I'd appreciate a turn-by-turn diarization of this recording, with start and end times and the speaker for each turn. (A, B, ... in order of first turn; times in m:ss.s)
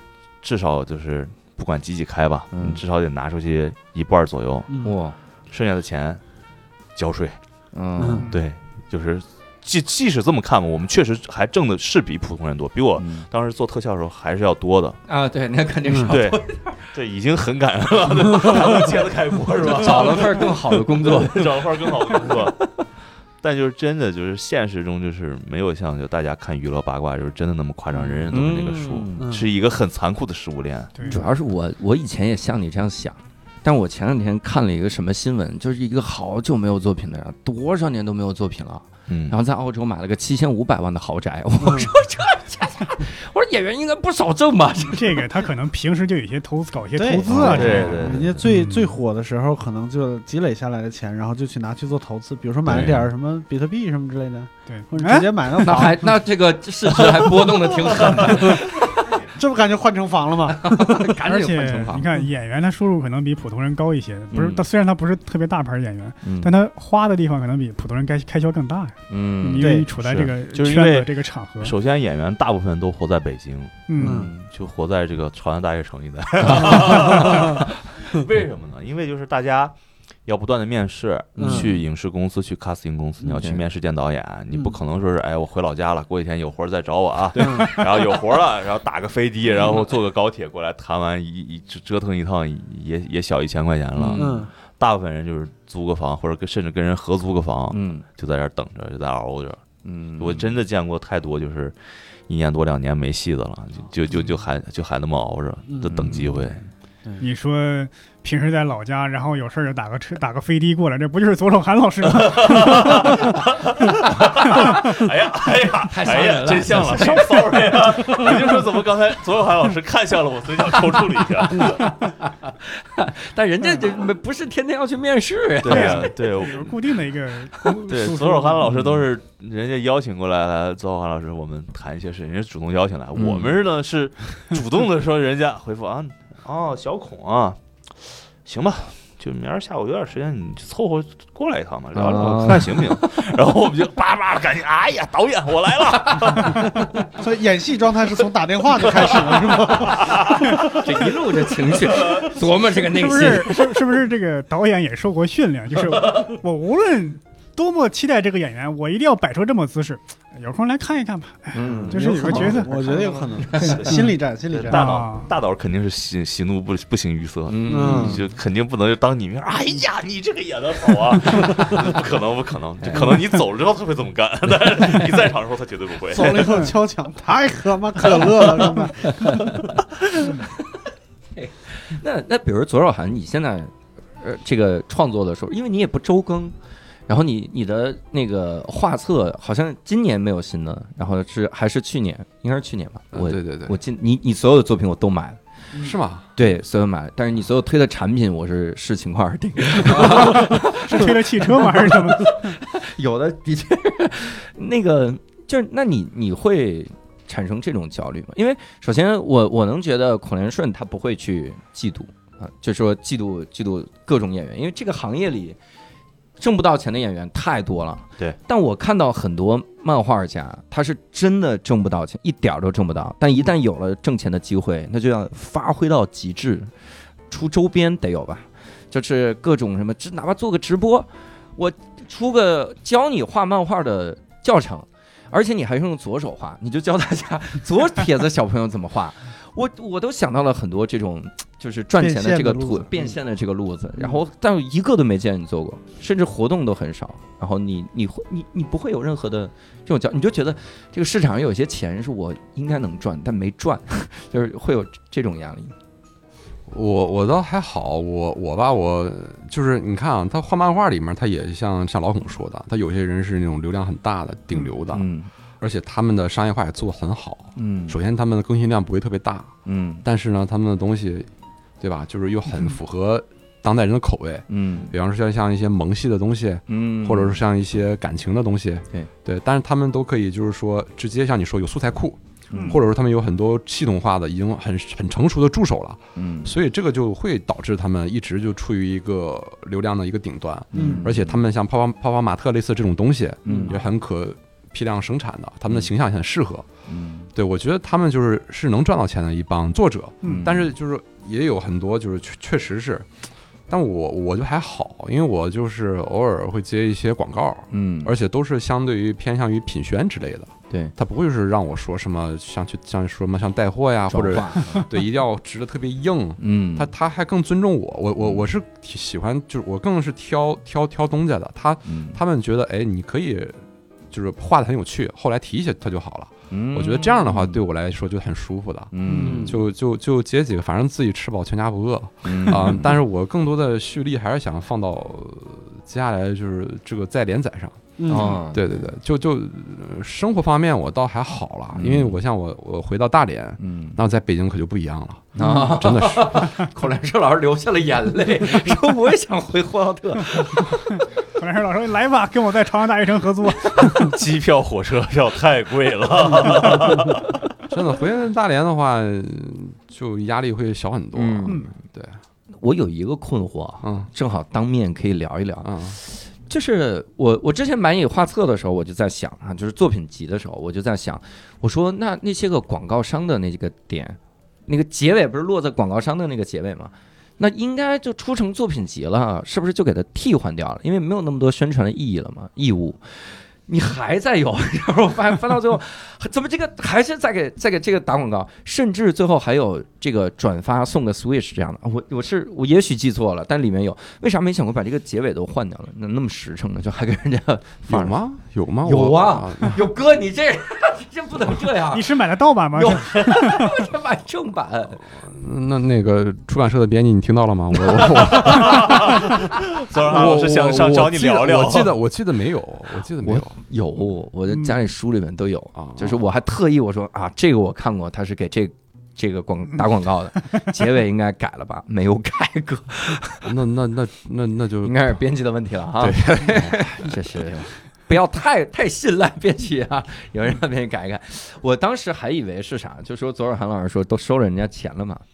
0:00.4-0:04.7 A
0:02.5-0:02.8 B
0:04.8-0:05.2 B
0:05.5-0:06.2 A
0:07.0-0:07.4 A
0:07.7-0:08.3 B
0:08.0-0:08.3 C
0:08.3-0:15.0 A
0:13.0-0:13.3 B
0:15.1-0:16.8 B
0:15.9-0:16.1 C
0:16.1-0:22.6 A
0:19.7-0:22.7 B
0:23.4-0:31.1 A
0:28.0-0:29.3 B
0:29.2-0:29.5 C
0:31.0-0:31.2 D
0:31.0-0:45.3 B
0:39.1-0:39.4 A
0:41.6-0:41.9 C
0:44.9-0:48.6 D
0:47.0-0:56.2 C
0:47.3-0:48.5 A
0:52.7-0:53.1 A
0:54.7-0:55.9 D
0:55.6-0:59.2 B
0:57.2-1:01.2 C
1:00.5-1:02.0 B
1:01.2-1:11.8 D
1:04.3-1:04.6 B
1:06.2-1:06.5 B
1:09.1-1:09.8 B
1:09.6-1:09.9 C
1:10.0-1:13.9 A
1:13.9-1:14.3 D
1:14.0-1:14.5 B
1:14.0-1:14.3 C
1:14.5-1:19.7 A
1:16.4-1:17.6 B
1:16.7-1:17.6 C
1:20.3-1:39.6 A
1:21.4-1:21.8 B
1:21.4-1:21.7 C
1:23.2-1:23.6 B
1:24.5-1:24.8 C
1:27.4-1:27.8 C
1:34.0-1:34.3 B
1:34.1-1:34.5 C
1:37.7-1:38.0 B
1:39.8-1:40.6 B
1:40.2-1:46.6 A
1:45.7-1:46.2 C
1:45.9-1:46.4 B
1:47.2-1:53.4 D
1:52.0-2:01.9 A
1:54.4-1:55.0 D
1:55.9-1:58.6 B
1:56.9-1:57.2 D
2:01.5-2:06.1 B
2:05.6-2:06.8 A
2:05.6-2:08.0 D
2:07.7-2:26.7 A
2:08.0-2:08.4 C
2:08.6-2:09.0 B
2:13.2-2:13.6 B
2:21.9-2:23.1 B
2:26.1-2:26.4 B
2:27.2-2:30.7 C
2:29.0-2:30.6 A
2:30.4-2:33.8 B
2:32.8-2:43.0 D
2:41.5-2:43.8 B
2:41.7-2:44.8 C
2:43.6-2:44.2 D
2:43.8-2:56.7 A
2:44.7-2:45.3 D
2:47.5-2:48.2 B
2:47.7-2:48.2 C
2:52.8-2:53.2 B
2:56.1-2:59.7 C
2:59.0-3:00.8 B
3:01.4-3:06.6 B
3:07.1-3:15.4 B
3:13.1-3:13.8 E
3:15.8-3:16.3 E
3:16.4-3:35.6 B
3:19.9-3:22.6 D
3:36.4-3:46.7 B
3:47.3-4:15.8 B
4:02.0-4:03.2 C
4:16.7-4:25.1 E
4:24.9-4:25.3 B
4:25.6-4:29.5 E
4:27.6-4:28.0 B
4:29.7-4:30.0 B
4:30.0-4:31.3 E
4:31.8-4:56.7 E
4:34.5-4:34.9 B
4:36.7-4:37.4 B
4:42.5-4:42.8 B
4:42.5-4:42.8 D
4:46.2-4:46.6 B
4:50.7-4:51.4 B
4:50.7-4:51.1 C
4:53.4-4:53.8 B
4:56.9-4:57.3 B
4:57.4-5:03.1 E
5:00.2-5:00.7 B
5:03.7-5:46.5 E
5:07.7-5:08.1 B
5:14.1-5:14.9 B
5:16.4-5:16.9 B
5:21.8-5:22.2 B
5:26.5-5:27.6 B
5:28.9-5:29.6 B
5:29.1-5:29.6 C
5:32.2-5:33.0 B
5:38.0-5:38.4 C
5:38.1-5:38.6 B
5:41.7-5:42.2 B
5:43.6-5:44.0 B
5:45.4-5:50.7 B
5:50.4-5:54.2 D
5:53.9-5:57.4 A
5:57.7-6:02.2 E
6:01.2-6:01.7 B
6:02.6-6:38.2 B
6:03.8-6:04.1 E
6:05.6-6:06.0 E
6:37.9-6:39.8 E
6:38.8-6:42.2 B
6:41.9-6:43.9 D
6:42.7-6:45.0 B
6:45.1-6:53.6 E
6:48.1-6:52.0 A
6:53.2-7:03.5 B
6:55.8-6:56.2 E
7:03.4-7:05.2 E
7:04.8-7:15.2 B
7:06.0-7:07.4 E